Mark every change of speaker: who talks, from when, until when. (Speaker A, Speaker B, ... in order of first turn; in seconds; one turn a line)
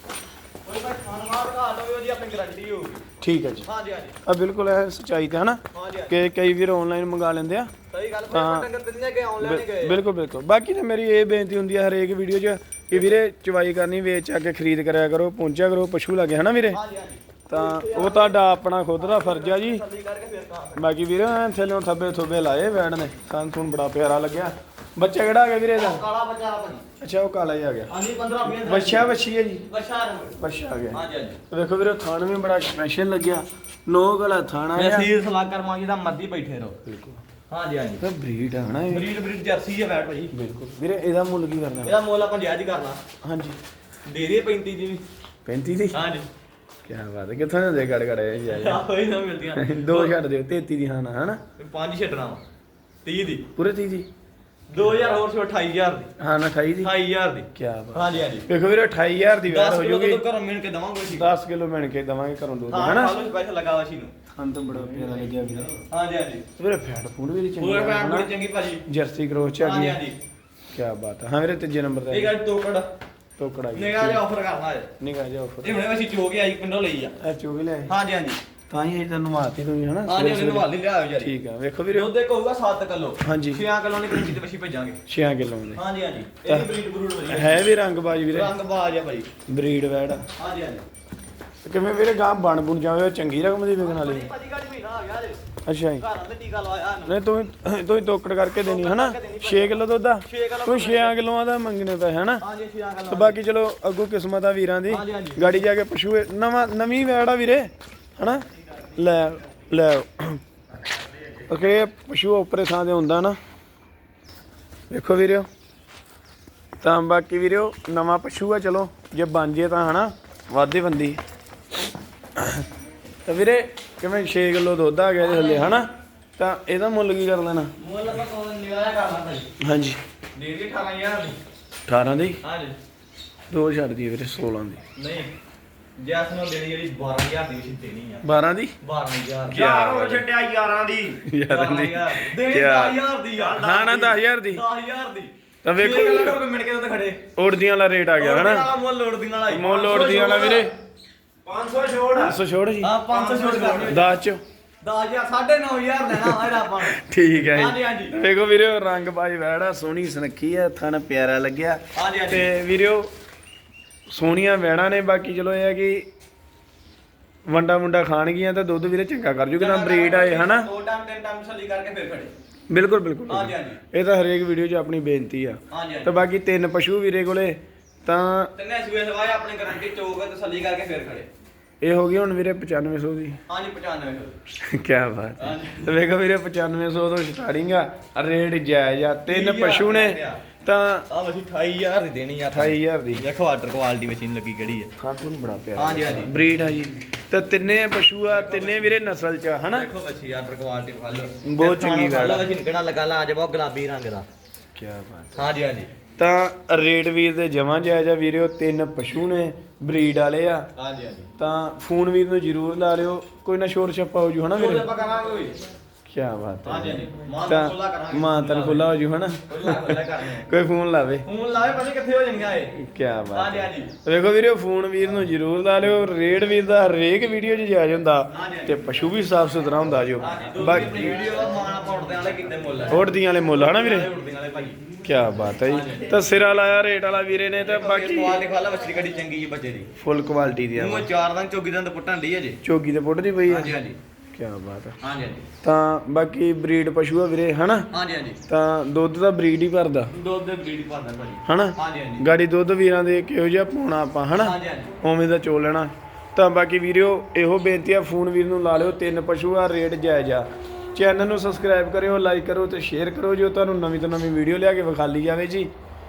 Speaker A: 0.6-3.0
Speaker B: 3.2-3.6
Speaker A: 3.6-4.2
Speaker B: 4.2-7.7
Speaker A: 5.7-6.2
Speaker A: 7.9-10.0
Speaker B: 8.3-8.7
Speaker B: 9.4-16.8
Speaker A: 16.7-18.4
Speaker B: 17.5-19.8
Speaker A: 19.0-20.8
Speaker B: 20.8-26.0
Speaker A: 25.7-26.8
Speaker B: 27.0-27.9
Speaker A: 27.9-29.1
Speaker B: 28.4-29.6
Speaker A: 29.6-30.4
Speaker B: 30.4-35.1
Speaker A: 30.9-31.4
Speaker A: 34.7-36.8
Speaker B: 36.8-37.2
Speaker A: 37.5-38.0
Speaker B: 38.0-39.1
Speaker A: 38.9-40.3
Speaker B: 40.3-42.0
Speaker A: 41.8-43.0
Speaker B: 43.2-43.6
Speaker A: 44.0-45.0
Speaker B: 45.5-46.0
Speaker A: 45.9-46.3
Speaker B: 46.8-48.8
Speaker A: 48.5-50.2
Speaker B: 49.5-51.4
Speaker A: 51.6-52.4
Speaker A: 53.0-53.5
Speaker B: 53.5-54.1
Speaker A: 54.7-56.1
Speaker B: 56.2-56.9
Speaker A: 56.8-58.5
Speaker B: 57.5-60.2
Speaker A: 59.5-61.3
Speaker B: 61.1-63.2
Speaker A: 62.7-64.1
Speaker B: 64.3-65.8
Speaker A: 65.9-66.4
Speaker B: 66.6-68.3
Speaker A: 67.6-68.8
Speaker B: 68.9-70.0
Speaker A: 69.6-70.2
Speaker B: 70.7-72.3
Speaker A: 72.1-72.9
Speaker B: 73.4-74.2
Speaker A: 73.7-74.9
Speaker B: 75.0-75.8
Speaker A: 75.6-77.1
Speaker B: 77.2-77.9
Speaker A: 77.9-78.4
Speaker B: 78.7-82.1
Speaker A: 80.1-81.3
Speaker A: 81.9-85.0
Speaker B: 83.2-83.6
Speaker B: 85.1-85.8
Speaker A: 85.7-87.7
Speaker B: 86.5-86.7
Speaker B: 87.2-88.5
Speaker A: 88.3-89.3
Speaker B: 89.5-90.2
Speaker A: 90.4-90.8
Speaker B: 91.6-94.3
Speaker A: 93.8-95.4
Speaker B: 95.7-96.0
Speaker A: 96.0-97.2
Speaker B: 97.0-102.4
Speaker A: 98.6-101.2
Speaker A: 102.4-103.4
Speaker B: 103.1-110.4
Speaker A: 104.9-105.5
Speaker B: 111.4-113.4
Speaker B: 114.9-115.5
Speaker B: 116.8-121.2
Speaker B: 122.4-122.7
Speaker B: 123.2-127.7
Speaker A: 125.2-125.8
Speaker A: 127.8-129.5
Speaker B: 129.6-130.0
Speaker A: 130.3-131.4
Speaker B: 131.9-132.4
Speaker A: 132.4-132.8
Speaker B: 133.5-134.8
Speaker A: 134.9-135.3
Speaker A: 136.0-138.2
Speaker B: 138.2-138.7
Speaker A: 138.8-139.8
Speaker B: 139.5-140.2
Speaker C: 139.5-141.2
Speaker B: 141.2-143.0
Speaker A: 141.5-147.2
Speaker B: 143.5-144.6
Speaker C: 143.6-144.1
Speaker B: 145.6-146.4
Speaker B: 147.3-148.7
Speaker A: 148.2-150.7
Speaker B: 149.5-150.7
Speaker C: 151.4-152.3
Speaker B: 152.2-152.9
Speaker A: 152.8-154.1
Speaker C: 153.1-154.0
Speaker B: 153.8-154.4
Speaker A: 154.8-158.2
Speaker B: 156.1-163.1
Speaker A: 161.9-162.5
Speaker B: 164.1-166.1
Speaker B: 167.5-170.7
Speaker A: 169.6-172.3
Speaker B: 172.7-178.5
Speaker A: 173.3-173.8
Speaker A: 175.7-176.1
Speaker A: 178.5-181.3
Speaker B: 181.8-183.4
Speaker A: 183.5-184.4
Speaker B: 184.6-191.1
Speaker A: 185.4-185.9
Speaker A: 189.3-190.4
Speaker A: 191.1-194.9
Speaker B: 192.5-193.2
Speaker B: 195.0-199.9
Speaker A: 195.8-196.5
Speaker A: 198.3-199.0
Speaker A: 199.7-204.3
Speaker B: 201.4-202.5
Speaker B: 204.7-205.5
Speaker A: 205.3-205.9
Speaker B: 206.2-210.7
Speaker A: 210.8-211.3
Speaker B: 211.4-214.9
Speaker A: 214.5-215.5
Speaker B: 216.1-221.2
Speaker A: 216.6-218.9
Speaker A: 219.5-220.5
Speaker A: 221.2-222.8
Speaker B: 222.8-231.2
Speaker A: 223.3-223.9
Speaker A: 228.3-228.8
Speaker A: 230.2-234.8
Speaker B: 232.9-234.1
Speaker B: 235.0-238.4
Speaker A: 235.7-236.2
Speaker A: 237.6-239.9
Speaker B: 240.0-241.1
Speaker A: 240.7-242.6
Speaker B: 242.6-243.8
Speaker A: 243.5-244.0
Speaker B: 244.3-245.0
Speaker A: 245.0-245.5
Speaker B: 245.6-247.9
Speaker A: 247.9-248.4
Speaker B: 248.5-250.1
Speaker A: 250.1-252.2
Speaker B: 251.4-265.7
Speaker A: 254.3-254.9